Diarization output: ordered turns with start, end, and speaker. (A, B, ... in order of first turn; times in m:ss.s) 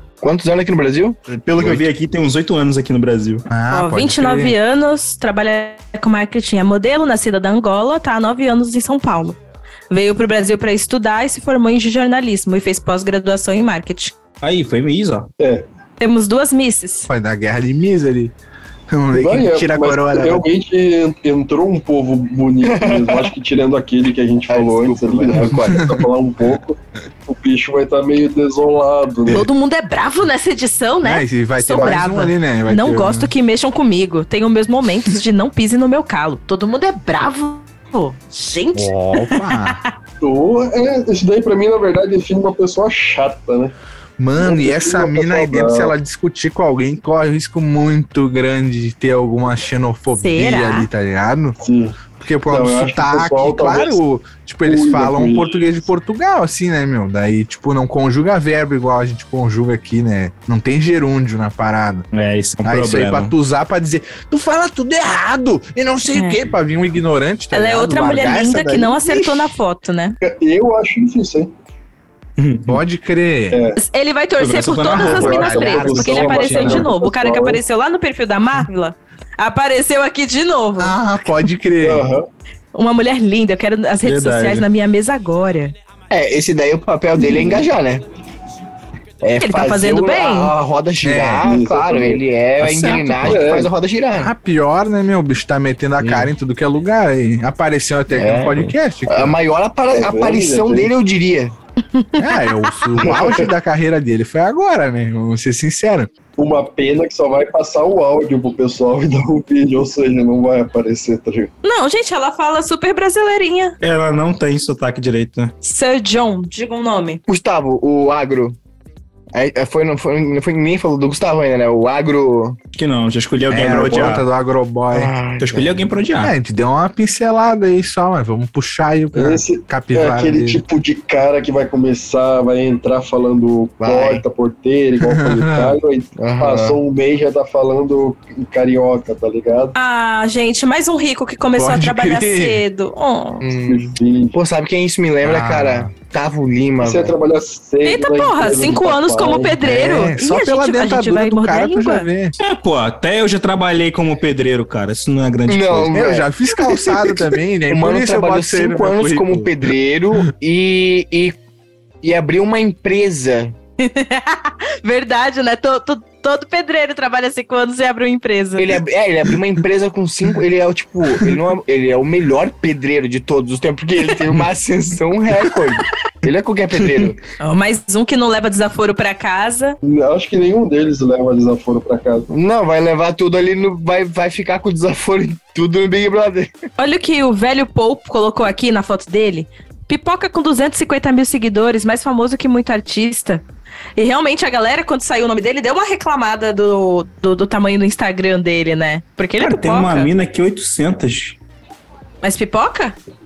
0:00.2-0:01.2 A
0:01.3-0:03.5 B
0:03.5-0:04.6 C
0:03.7-0:09.4 D
0:09.9-0:14.1 D
0:14.4-0:15.3 B
0:15.4-0:15.7 E
0:16.0-0:17.1 D
0:17.1-0:18.3 C
0:18.9-0:20.4 C
0:19.1-0:29.5 E
0:22.6-0:23.3 A
0:24.5-0:26.0 A
0:25.7-0:26.0 C
0:29.3-0:39.9 D
0:31.0-0:33.3 C
0:38.7-0:39.8 C
0:40.2-0:43.7 E
0:44.2-0:51.6 C
0:44.4-0:45.9 E
0:50.2-0:50.9 D
0:51.6-0:54.0 E
0:52.2-1:02.1 C
0:54.6-0:55.6 E
1:02.1-1:03.3 B
1:02.6-1:09.6 C
1:06.2-1:06.4 D
1:07.5-1:10.2 D
1:10.2-1:11.5 E
1:12.4-1:12.8 B
1:12.7-1:13.6 C
1:13.5-1:13.8 E
1:13.8-1:21.0 D
1:14.4-1:15.4 B
1:14.8-1:16.9 C
1:15.0-1:17.6 E
1:20.8-1:22.1 C
1:21.8-1:22.3 E
1:22.7-1:25.8 D
1:24.0-1:24.7 B
1:26.1-1:28.0 A
1:29.2-1:34.3 A
1:29.4-1:30.5 D
1:31.0-1:31.5 C
1:31.4-1:32.2 E
1:32.6-1:33.4 B
1:32.7-1:33.3 C
1:33.2-1:33.7 E
1:34.1-1:39.4 C
1:36.0-1:36.3 A
1:38.1-1:41.5 A
1:39.9-1:40.9 E
1:42.0-1:43.0 D
1:42.2-1:46.1 C
1:43.0-1:43.5 E
1:46.4-1:51.5 E
1:51.6-1:53.8 D
1:53.8-1:55.5 B
1:55.6-1:57.2 D
1:57.3-1:58.6 A
1:59.3-2:02.6 A
2:02.8-2:04.3 B
2:03.5-2:05.1 C
2:03.8-2:04.2 E
2:04.9-2:05.9 A
2:05.4-2:06.3 B
2:06.2-2:10.6 C
2:09.1-2:19.7 E
2:13.8-2:14.2 A
2:15.0-2:15.8 C
2:16.2-2:16.8 A
2:19.8-2:23.4 D
2:21.6-2:22.6 C
2:23.4-2:27.2 A
2:23.7-2:24.4 E
2:25.2-2:25.9 C
2:26.8-2:29.6 E
2:27.8-2:32.1 D
2:29.6-2:32.4 C
2:32.4-2:35.9 B
2:35.5-2:41.4 A
2:35.9-2:39.5 C
2:42.0-2:43.6 A
2:43.8-2:48.7 D
2:48.6-2:57.2 A
2:57.4-2:59.8 D
2:59.8-3:02.3 E
3:02.3-3:06.5 A
3:06.8-3:13.4 D
3:14.0-3:20.1 D
3:19.4-3:21.4 B
3:22.2-3:23.0 D